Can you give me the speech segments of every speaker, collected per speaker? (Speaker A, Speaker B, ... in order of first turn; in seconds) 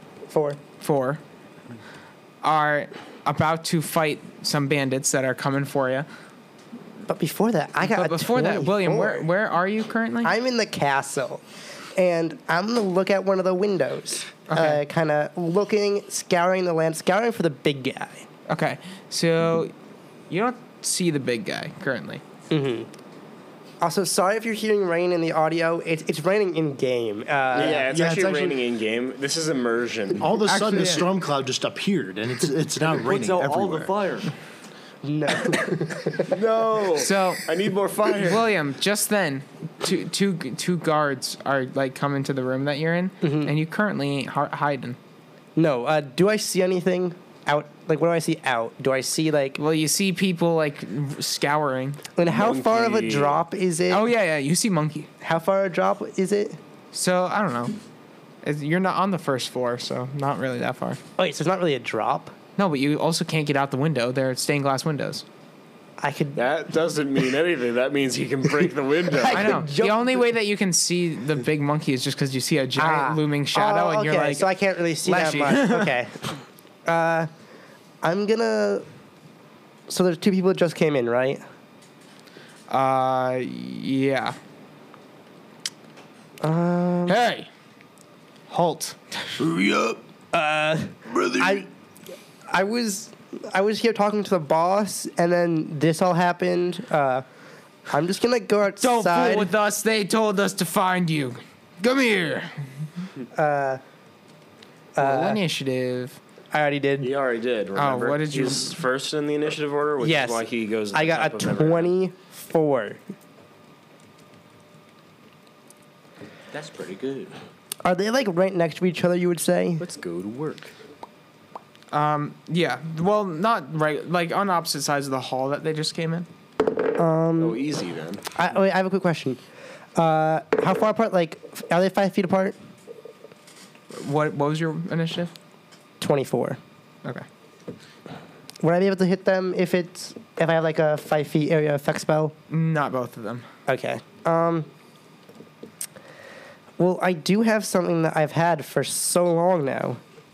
Speaker A: 0.3-0.6, 7.1-9.3, 10.2-11.4, 12.0-18.3, 22.5-22.9, 23.8-27.9, 35.0-36.4, 43.2-43.5, 45.6-49.6, 52.2-54.1, 55.2-56.6, 61.2-62.3, 66.0-66.5, 69.0-70.3, 72.8-77.3, 78.0-78.9, 79.9-81.4, 86.4-87.2, 90.3-91.7, 92.5-97.2, 97.9-99.5, 103.3-103.8, 105.0-105.4, 106.5-107.1, 110.0-113.0, 117.8-119.8, 127.0-127.6, 128.3-129.4, 130.0-132.6, 136.0-136.6, 138.6-142.3, 143.7-144.7, 146.8-150.0
Speaker B: 0.8-1.2, 2.4-6.1, 7.8-10.3, 14.5-14.8, 18.5-19.7, 20.3-22.2, 30.5-31.1, 37.0-37.5, 38.2-45.0, 49.6-52.0, 53.9-55.1, 56.9-57.8, 58.4-61.0, 62.6-65.2, 69.3-74.5, 75.0-75.9, 82.7-84.4, 87.1-87.5, 88.5-89.0, 98.8-102.6, 105.0-106.2, 107.8-108.8, 121.9-126.3, 133.9-135.3, 142.5-143.5
Speaker C: 27.5-30.3, 36.3-38.5, 52.2-53.4, 66.3-69.6, 107.0-111.9, 119.8-120.7, 127.4-128.3
Speaker D: 27.6-28.6, 30.2-34.0, 89.5-90.0
Speaker E: 33.0-34.3, 116.5-117.4